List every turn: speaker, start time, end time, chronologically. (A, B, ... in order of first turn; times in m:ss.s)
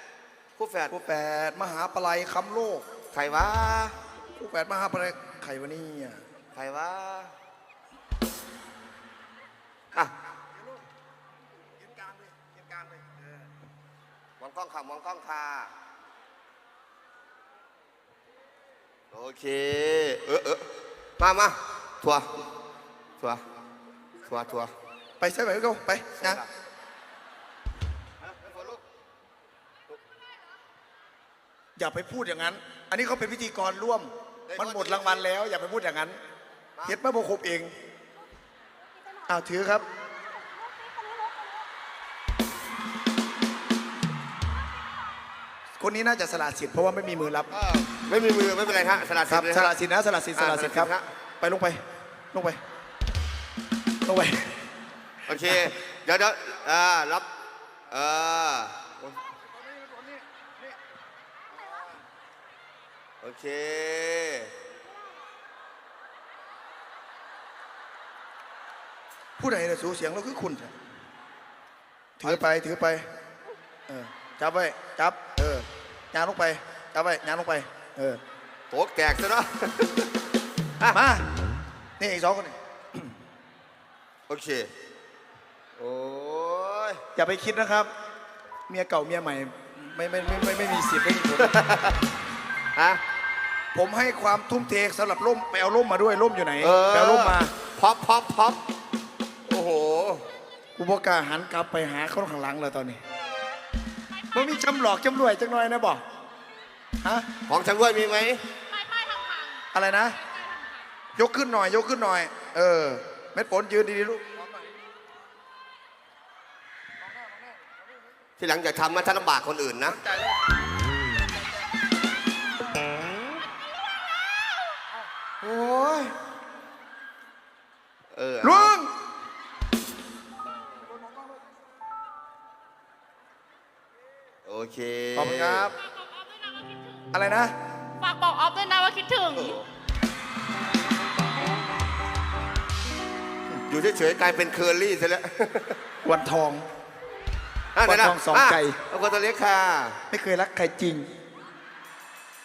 0:00.6-0:00.9 A
0:00.9-0:02.8 B
0:03.1-0:04.0 A
0:04.4-0:06.2 B
0:06.5-0:07.3 A
0:09.9-0:10.8 B
0:11.8-0:13.3 B
0:14.4-0:15.7 A
0:19.1-0:20.6 A
0:21.2-0:22.3 A
0:24.2-0:24.7 A
0:25.2-0:26.4 B
0:26.2-0:26.5 A
0:28.2-0:28.8 A
0:31.8-0:36.2 B
0:34.5-0:35.2 A
0:36.8-0:37.7 B
0:39.3-0:39.8 B
0:45.8-0:47.5 B
0:47.5-0:49.7 A
0:49.2-0:51.8 B
0:50.4-0:51.1 A
0:52.3-0:52.6 B
0:54.0-0:54.6 B
0:55.3-0:57.3 A
0:57.9-0:58.8 A
0:59.3-1:00.8 B
1:01.6-1:01.9 B
1:03.2-1:04.5 A
1:09.4-1:10.7 B
1:12.2-1:13.0 B
1:13.9-1:18.2 B
1:18.7-1:20.1 A
1:20.9-1:21.2 B
1:22.0-1:23.1 B
1:24.3-1:24.7 A
1:25.8-1:27.0 A
1:27.2-1:27.9 B
1:28.7-1:31.6 B
1:31.4-1:32.0 A
1:32.8-1:33.0 A
1:33.7-1:37.5 B
1:36.6-1:38.6 A
1:39.5-1:40.2 A
1:40.8-1:43.0 B
1:44.3-1:46.0 B
1:47.5-1:48.4 A
1:48.9-1:49.5 C
1:49.7-1:50.2 B
1:51.2-1:54.7 B
1:57.2-1:57.6 B
1:58.4-2:00.0 A
1:59.8-2:00.4 B
2:05.4-2:06.1 A
2:08.1-2:08.7 A
2:08.4-2:08.9 B
2:14.4-2:15.7 A
2:15.1-2:15.8 B
2:17.1-2:17.5 B
2:18.0-2:19.3 C
2:19.3-2:19.7 A
2:23.7-2:25.8 A
2:26.0-2:26.6 B
2:27.8-2:30.0 A
2:27.8-2:28.8 B
2:30.1-2:31.1 B